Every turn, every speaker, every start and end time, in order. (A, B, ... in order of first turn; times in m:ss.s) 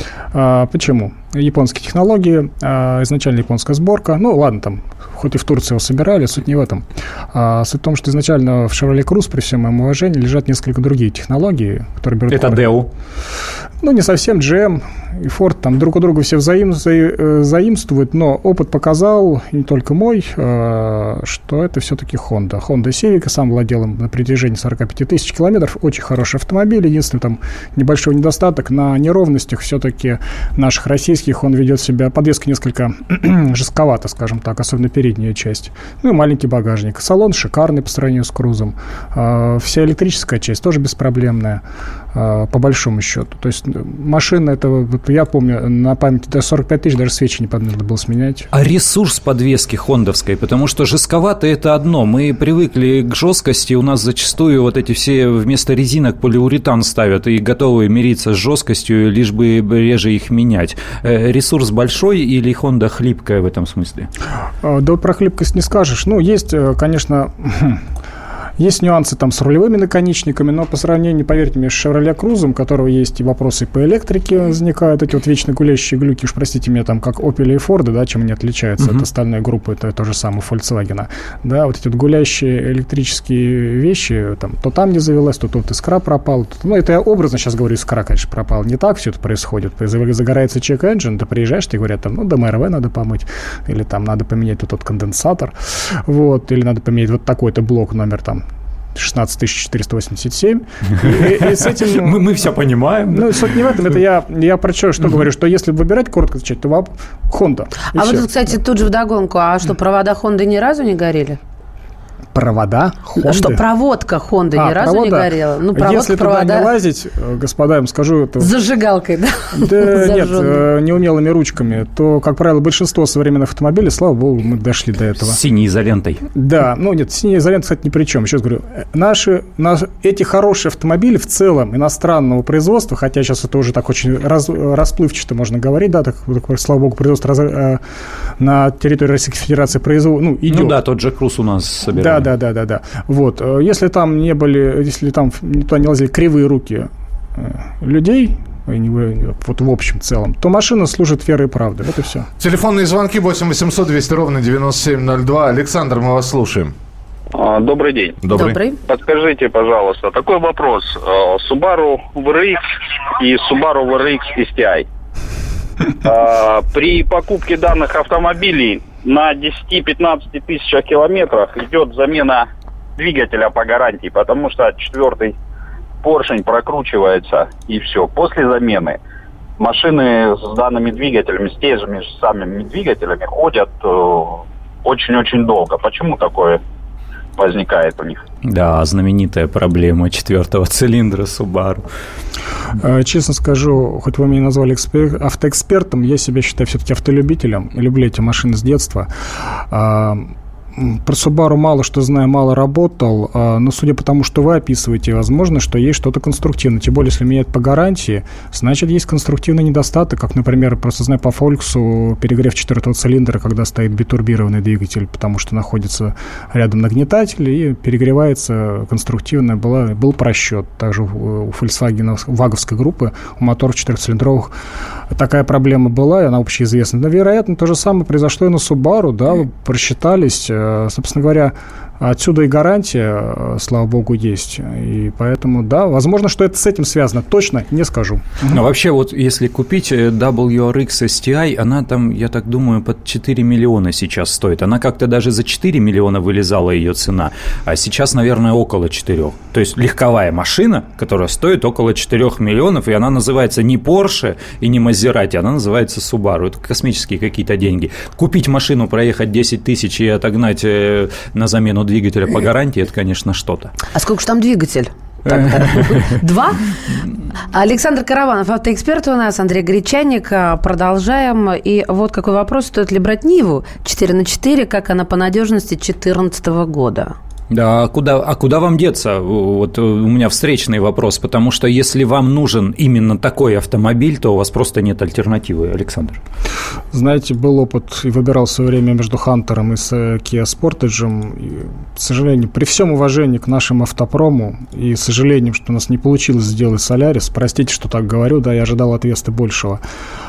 0:00.3-0:12.7 A
0:12.3-0:12.9 B
0:13.8-0:41.6 A
0:42.1-0:48.5 A
0:48.5-1:04.1 B
1:04.6-1:07.8 A
1:08.6-1:38.4 A
1:18.8-1:19.0 B
1:39.0-1:42.2 A
1:41.0-1:43.9 B
1:43.1-1:48.2 A
1:47.9-1:51.4 C
1:52.3-1:53.6 A
1:53.2-1:56.7 C
1:54.6-1:58.5 A
1:58.4-2:00.6 C
1:59.6-2:05.4 A
2:05.2-2:06.2 B
2:06.3-2:17.8 A
2:18.4-2:20.8 A
2:20.5-2:22.3 B
2:21.9-2:32.3 A
2:32.4-2:36.7 D
2:37.3-2:38.2 E
2:38.2-2:38.6 D
2:38.3-2:38.8 C
2:38.8-2:44.8 E
2:46.0-2:55.4 E
2:56.0-2:59.0 E
2:59.6-3:06.6 E
3:07.4-3:08.2 E
3:08.4-3:11.8 B
3:12.8-3:19.1 A
3:19.7-3:44.5 A
3:45.1-3:58.6 A
3:58.5-4:23.7 B
4:23.9-4:37.2 C
4:25.2-4:26.1 B
4:37.5-4:46.2 B
4:46.9-4:59.8 A